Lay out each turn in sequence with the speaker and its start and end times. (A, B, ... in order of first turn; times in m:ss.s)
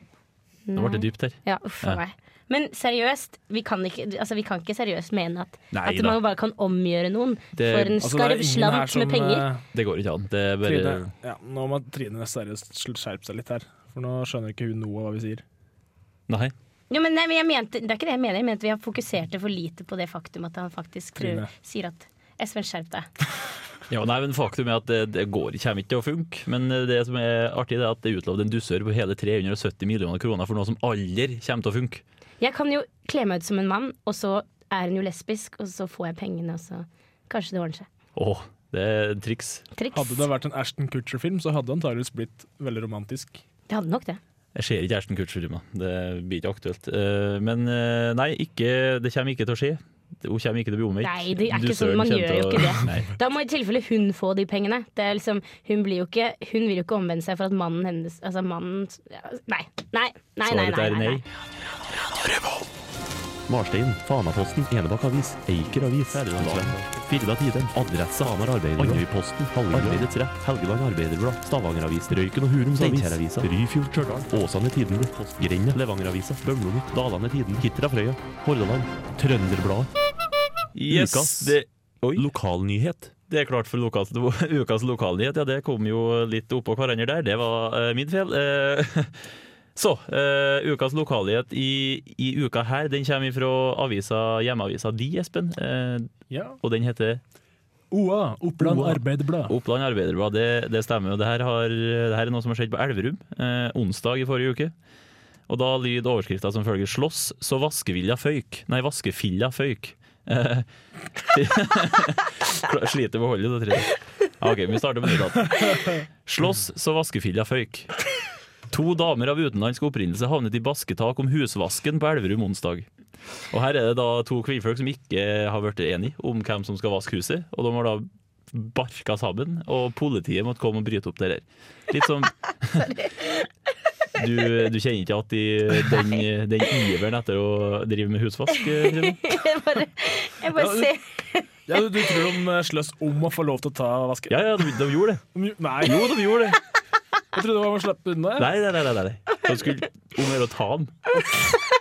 0:00.7-0:09.5 A
0:00.8-0:02.0 B
0:05.7-0:06.2 B
0:07.6-0:08.0 B
0:08.0-0:09.6 C
0:09.7-0:11.1 B
0:10.6-0:15.4 C
0:16.3-0:16.5 B
0:16.9-0:23.1 A
0:21.2-0:21.5 C
0:23.9-0:32.0 B
0:32.4-0:37.9 A
0:38.2-0:39.6 B
0:39.8-0:40.3 A
0:39.9-0:43.4 C
0:43.7-0:44.2 A
0:44.6-0:53.1 B
0:51.0-1:01.2 A
1:00.4-1:01.2 B
1:03.5-1:19.9 D
1:20.8-1:21.7 B
1:20.9-1:21.6 D
1:22.2-1:23.1 D
1:23.3-1:36.1 B
1:36.3-1:36.6 C
1:36.6-1:37.2 B
1:37.9-1:39.5 C
1:38.6-1:44.7 B
1:45.5-1:50.7 B
1:51.2-1:58.0 B
1:58.7-2:02.9 B
2:03.5-2:12.9 B
2:12.8-2:13.3 A
2:14.2-2:19.2 B
2:18.9-2:21.4 A
2:20.6-2:20.9 C
2:21.7-2:24.8 C
2:24.3-2:25.2 B
2:25.3-2:26.4 C
2:25.8-2:26.6 B
2:27.3-2:28.5 C
2:28.4-2:31.0 B